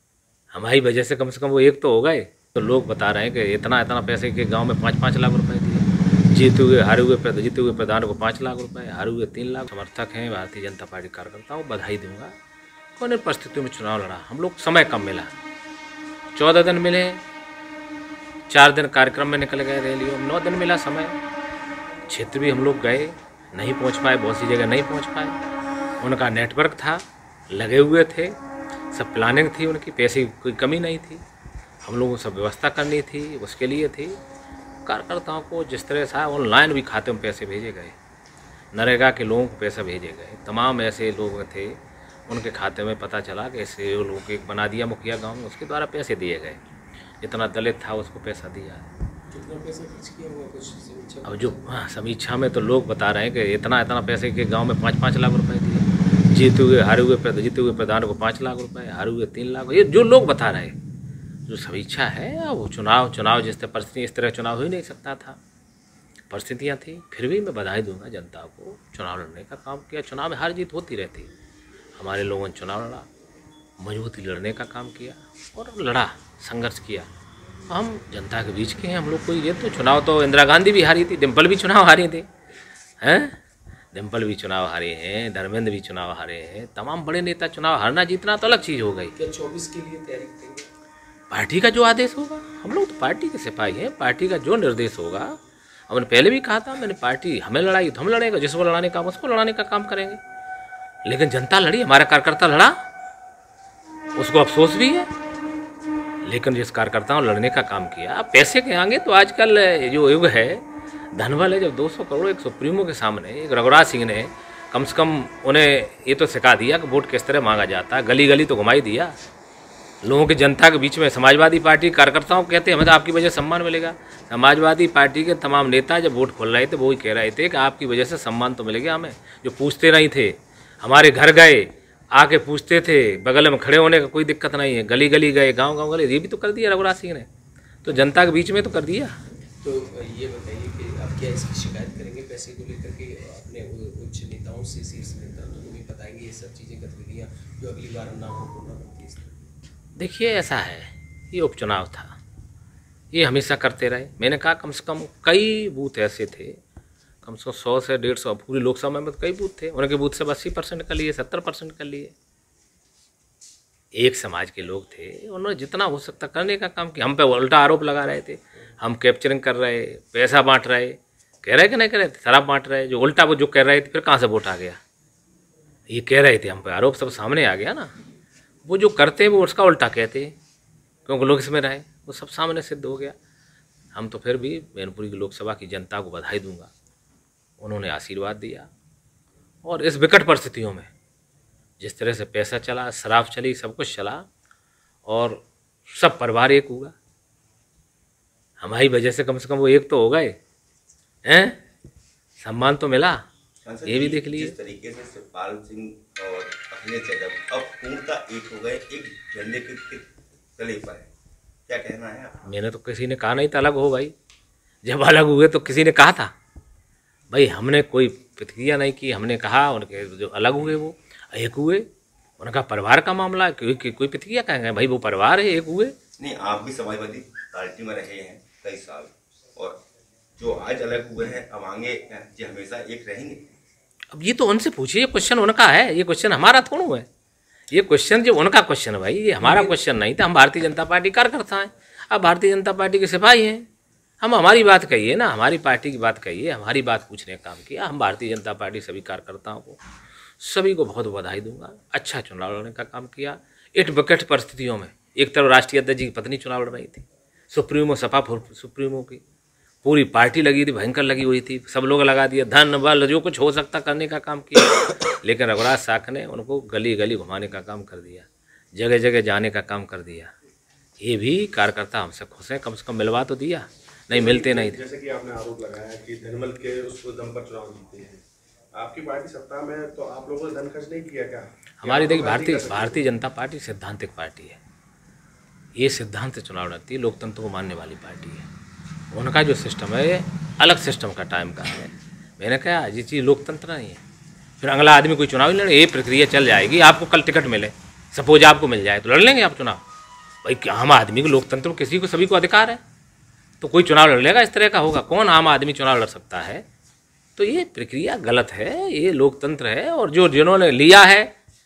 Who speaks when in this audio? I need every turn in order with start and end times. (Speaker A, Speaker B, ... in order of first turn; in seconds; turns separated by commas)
Speaker A: 0.5-12.3, Speaker A: 13.0-15.3, Speaker A: 16.4-17.2, Speaker A: 18.5-21.2, Speaker A: 22.1-25.4, Speaker A: 26.0-28.4, Speaker A: 28.9-31.2, Speaker A: 31.8-34.2, Speaker A: 34.9-38.0, Speaker A: 38.7-46.6, Speaker A: 47.2-48.9, Speaker B: 49.3-51.7, Speaker A: 51.2-60.8, Speaker A: 61.5-65.4, Speaker A: 66.3-71.3, Speaker A: 72.0-73.1, Speaker A: 73.8-77.1, Speaker A: 77.7-82.3, Speaker A: 83.0-83.4, Speaker A: 83.9-89.1, Speaker B: 89.2-90.7, Speaker A: 91.3-95.4, Speaker A: 95.9-100.2, Speaker A: 101.0-102.8, Speaker A: 104.2-105.1, Speaker A: 106.2-119.1, Speaker A: 120.0-137.3, Speaker A: 137.8-139.2, Speaker B: 139.6-149.4, Speaker A: 150.0-152.2, Speaker A: 153.1-156.6, Speaker A: 157.2-162.1, Speaker A: 163.9-174.8, Speaker A: 175.9-177.9, Speaker A: 178.7-180.3, Speaker A: 181.1-183.2, Speaker A: 183.9-186.7, Speaker A: 187.6-188.7, Speaker A: 189.6-190.9, Speaker A: 191.8-194.3, Speaker A: 195.1-197.0, Speaker A: 198.6-200.4, Speaker A: 201.3-201.6, Speaker A: 202.4-203.2, Speaker C: 203.6-211.1, Speaker A: 203.8-204.6, Speaker C: 211.7-212.4, Speaker A: 212.5-214.1, Speaker A: 214.8-216.3, Speaker A: 217.3-221.9, Speaker A: 222.4-225.9, Speaker C: 226.2-229.8, Speaker C: 230.4-233.5, Speaker A: 234.1-237.1, Speaker A: 237.7-243.6, Speaker B: 239.4-239.7, Speaker A: 244.2-249.8, Speaker A: 250.4-259.2, Speaker A: 259.8-270.3, Speaker A: 271.0-274.8, Speaker D: 274.1-283.0, Speaker A: 281.8-284.6, Speaker A: 285.8-288.5, Speaker A: 289.1-294.0, Speaker A: 294.6-299.8, Speaker A: 300.4-302.8, Speaker A: 303.6-306.6, Speaker A: 307.4-311.3